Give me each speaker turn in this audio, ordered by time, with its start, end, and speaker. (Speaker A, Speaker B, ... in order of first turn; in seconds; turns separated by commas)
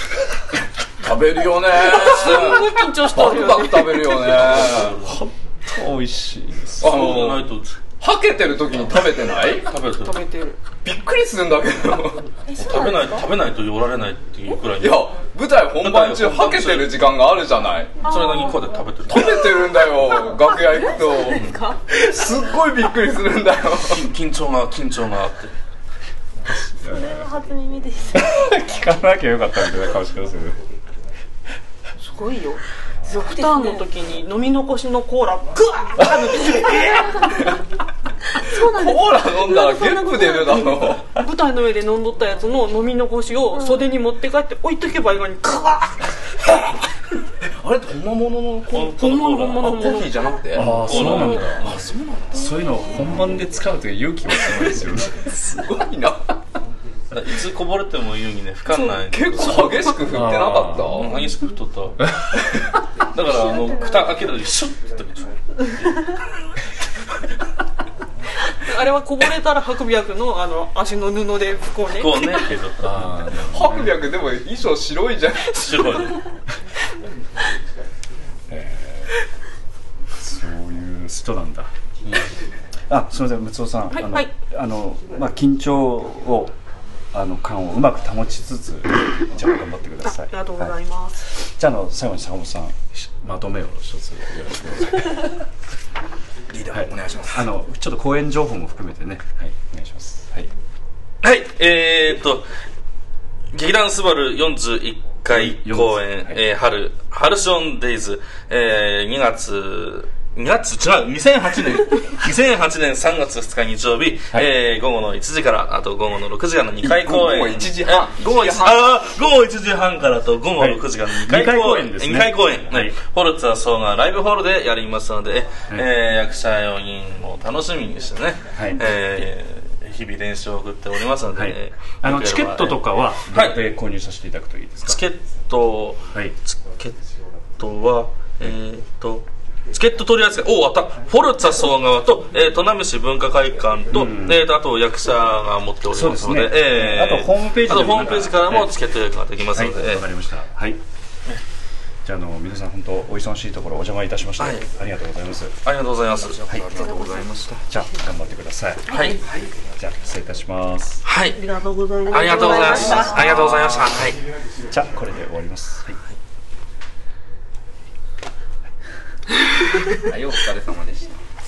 Speaker A: 0.6-5.0, Speaker B: 1.7-4.3, Speaker C: 4.1-5.2, Speaker D: 4.9-7.4, Speaker C: 6.8-7.7, Speaker A: 6.8-7.5, Speaker A: 8.0-9.7, Speaker C: 8.9-10.2, Speaker B: 9.9-10.6, Speaker A: 10.8-12.2, Speaker B: 12.5-13.3, Speaker C: 12.6-15.2, Speaker A: 14.8-18.0, Speaker C: 15.7-17.1, Speaker B: 18.0-18.6, Speaker C: 18.0-19.6, Speaker A: 19.1-24.1, Speaker B: 19.8-21.8, Speaker C: 21.2-21.5, Speaker C: 23.9-25.5, Speaker D: 26.4-27.3, Speaker E: 26.8-28.3, Speaker D: 28.1-30.6, Speaker B: 32.0-37.6, Speaker E: 33.1-33.9, Speaker E: 36.7-37.5, Speaker E: 38.3-40.7, Speaker A: 38.5-41.1, Speaker B: 39.9-46.6, Speaker E: 43.5-43.9, Speaker A: 47.4-48.9, Speaker C: 48.7-49.9, Speaker B: 48.9-50.2, Speaker A: 49.6-53.2, Speaker D: 50.5-51.7, Speaker C: 50.5-51.9, Speaker B: 50.9-51.5, Speaker D: 52.3-55.2, Speaker A: 54.4-56.4, Speaker C: 57.1-60.0, Speaker B: 58.7-58.9, Speaker A: 59.1-61.2, Speaker D: 60.1-61.0, Speaker C: 60.8-62.1, Speaker D: 62.1-62.4, Speaker C: 63.1-65.9, Speaker B: 68.5-72.5, Speaker C: 71.9-73.3, Speaker D: 72.7-74.0, Speaker A: 73.3-76.1, Speaker C: 75.5-76.2, Speaker D: 78.5-79.1, Speaker D: 80.1-81.7, Speaker C: 82.0-82.3, Speaker D: 82.9-86.5, Speaker B: 83.9-84.3, Speaker D: 87.1-95.4, Speaker B: 90.0-91.2, Speaker A: 96.5-97.5, Speaker D: 96.7-100.5, Speaker C: 101.2-102.5, Speaker C: 103.5-133.6, Speaker D: 105.3-106.4, Speaker A: 116.8-118.9, Speaker D: 120.6-123.0, Speaker D: 128.5-128.9, Speaker D: 131.3-135.0, Speaker C: 134.9-150.0, Speaker D: 143.9-144.5, Speaker D: 145.9-148.8, Speaker D: 149.5-150.8, Speaker D: 152.0-155.5, Speaker C: 154.4-154.6, Speaker C: 155.6-156.4, Speaker A: 156.2-157.6, Speaker E: 156.7-157.3, Speaker D: 157.6-159.0, Speaker C: 158.9-159.2, Speaker B: 158.9-159.2, Speaker D: 159.8-161.0, Speaker C: 161.0-161.4, Speaker B: 161.3-163.3, Speaker E: 162.1-163.2, Speaker C: 162.1-164.2, Speaker D: 163.2-163.8, Speaker D: 164.7-166.0, Speaker A: 169.9-171.2